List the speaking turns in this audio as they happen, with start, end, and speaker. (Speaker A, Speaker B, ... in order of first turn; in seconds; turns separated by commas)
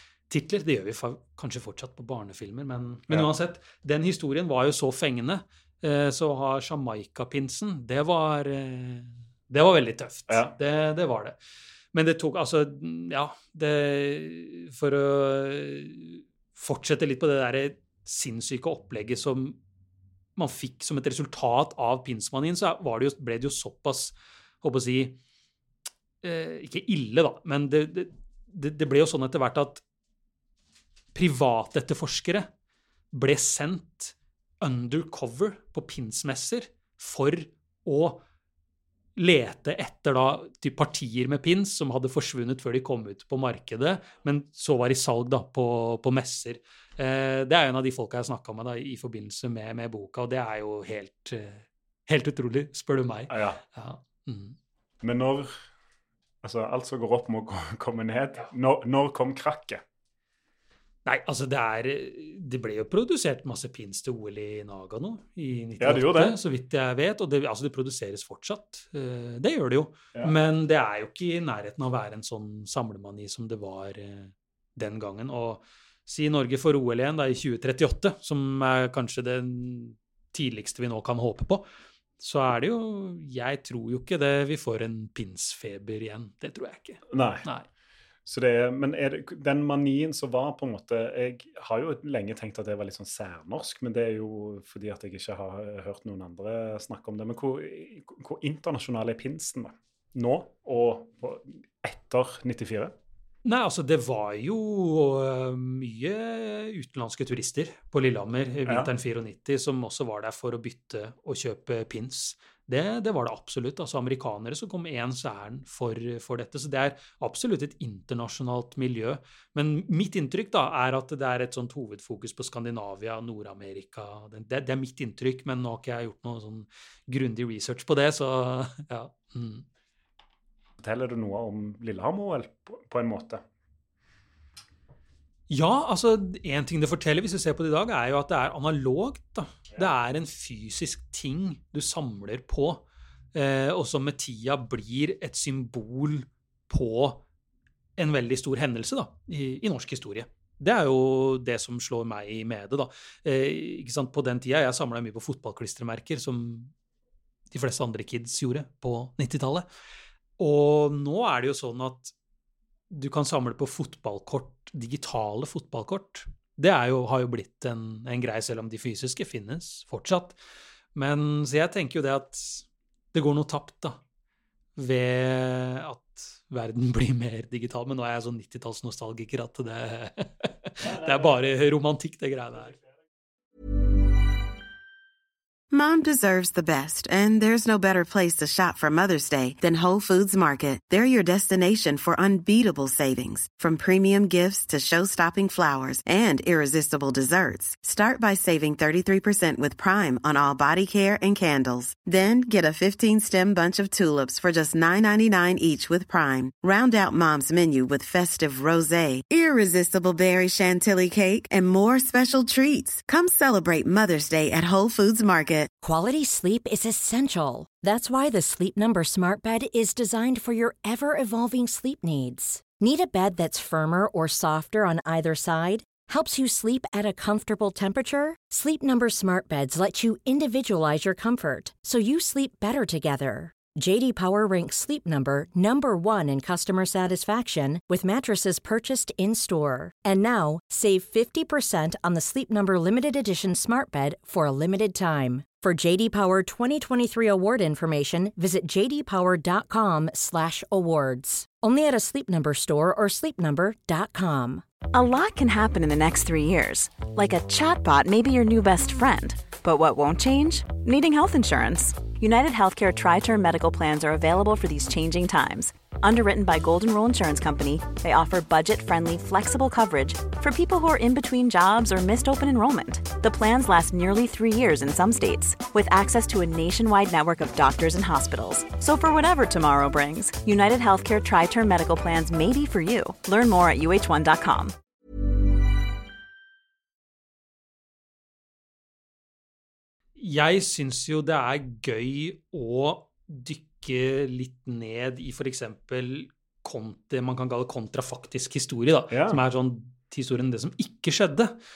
Speaker A: 0.3-11.3, Speaker A: 11.9-19.6, Speaker A: 20.4-25.2, Speaker A: 26.2-29.8, Speaker A: 31.1-32.5, Speaker A: 33.1-38.2, Speaker A: 39.2-54.5, Speaker B: 53.3-53.6, Speaker B: 55.0-55.5, Speaker B: 56.4-59.8, Speaker A: 61.0-81.7, Speaker B: 65.8-66.4, Speaker A: 82.2-87.7, Speaker B: 87.1-87.4, Speaker B: 88.2-102.9, Speaker A: 103.4-129.6, Speaker B: 130.8-133.4, Speaker A: 135.5-142.8, Speaker A: 143.3-147.2, Speaker A: 148.0-156.7, Speaker A: 157.5-159.7, Speaker A: 160.4-162.1, Speaker A: 162.9-170.4, Speaker A: 170.9-174.0, Speaker A: 174.8-182.8, Speaker C: 185.7-215.7, Speaker D: 215.8-254.6, Speaker E: 254.9-284.7, Speaker A: 290.2-301.5, Speaker B: 299.1-299.4